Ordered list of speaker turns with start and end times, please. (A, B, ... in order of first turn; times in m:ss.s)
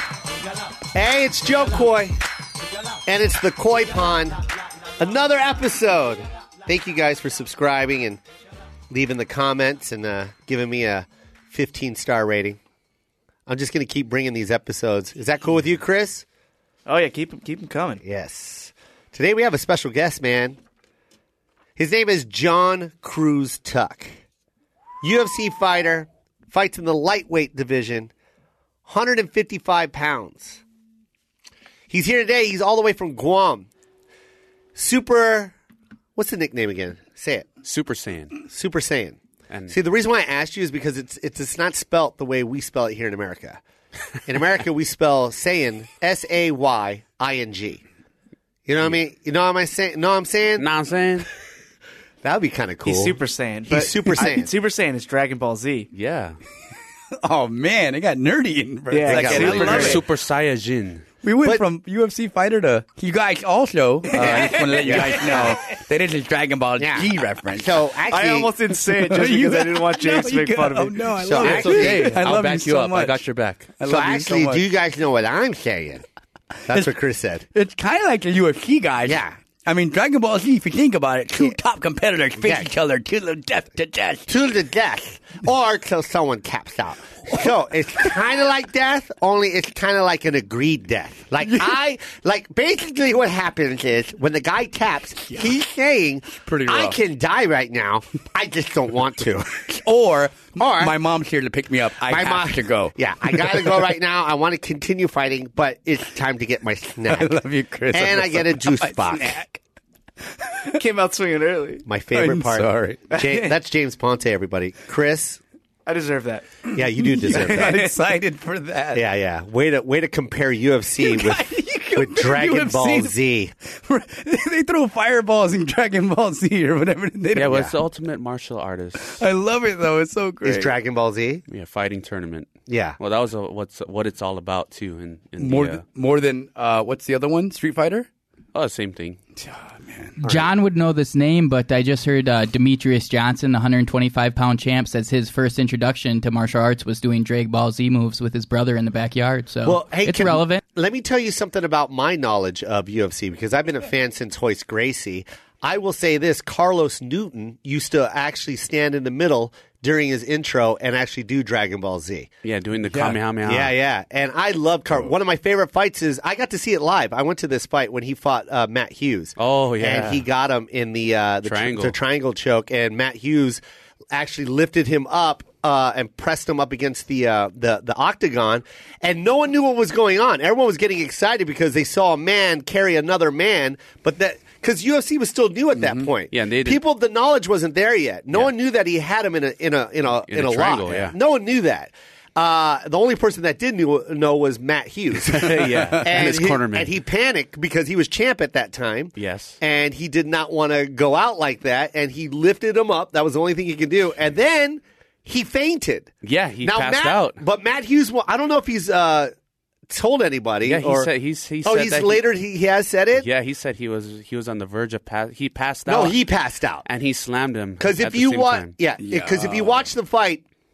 0:00.9-0:02.2 A
0:03.1-0:04.4 A
0:05.0-0:08.2 A
0:08.9-0:12.6 A
0:13.5-0:16.2 A
0:16.9-0:18.0 B
0:18.0-0:20.6 A
0:21.8-0:24.2 A
0:25.0-0:28.1 A
0:28.9-0:30.6 A
0:31.9-0:33.7 A
0:34.8-0:35.6 A
0:36.2-0:37.5 A
0:37.6-0:38.4 C
0:38.5-0:43.6 A
0:39.5-0:39.8 C
0:44.3-0:47.8 A
0:48.7-0:50.7 A
0:50.6-0:51.3 C
0:52.2-0:54.5 A
0:52.8-0:55.9 B
0:55.9-0:56.4 C
0:57.2-1:00.0 D
0:58.9-1:00.0 B
0:59.0-1:00.0 A
0:59.3-1:01.1 C
1:01.2-1:07.7 D
1:04.1-1:05.6 A
1:04.2-1:05.4 B
1:06.8-1:08.5 A
1:08.1-1:11.1 B
1:08.9-1:13.2 D
1:11.2-1:12.3 A
1:11.4-1:13.7 C
1:13.8-1:14.6 D
1:13.8-1:16.0 A
1:16.6-1:16.9 D
1:16.7-1:17.5 A
1:17.5-1:24.3 D
1:19.0-1:19.4 A
1:22.4-1:22.7 A
1:24.3-1:39.7 A
1:36.5-1:37.0 D
1:39.7-1:43.8 D
1:40.6-1:41.0 A
1:42.0-1:47.4 A
1:47.0-1:49.6 D
1:47.9-1:49.4 A
1:50.4-1:50.8 D
1:50.8-1:51.8 B
1:51.8-1:55.4 A
1:52.1-1:53.1 D
1:53.1-1:53.5 B
1:55.9-1:56.6 B
1:56.7-1:57.8 A
1:56.8-1:59.0 D
1:57.2-1:58.0 B
1:58.9-2:03.5 A
2:01.0-2:07.7 D
2:07.3-2:09.2 C
2:07.4-2:07.7 A
2:09.0-2:10.7 D
2:10.4-2:11.4 A
2:11.5-2:15.8 C
2:12.7-2:13.0 A
2:15.4-2:18.1 D
2:18.5-2:19.2 C
2:19.4-2:20.2 D
2:20.2-2:30.6 E
2:20.2-2:20.5 A
2:29.6-2:42.3 A
2:42.4-2:43.7 C
2:42.9-2:43.2 D
2:43.4-2:53.6 A
2:49.4-2:50.2 C
2:51.4-2:52.0 C
2:54.1-3:26.1 A
3:05.8-3:06.1 D
3:06.3-3:06.8 C
3:10.3-3:11.2 C
3:15.2-3:16.9 C
3:15.7-3:16.1 D
3:19.2-3:19.6 C
3:26.2-3:27.4 C
3:26.6-3:29.3 A
3:29.9-3:31.1 A
3:30.6-3:32.2 C
3:31.6-3:33.3 A
3:33.2-3:36.2 C
3:35.9-3:36.9 A
3:36.8-3:38.8 C
3:37.8-3:40.4 A
3:39.0-3:39.8 D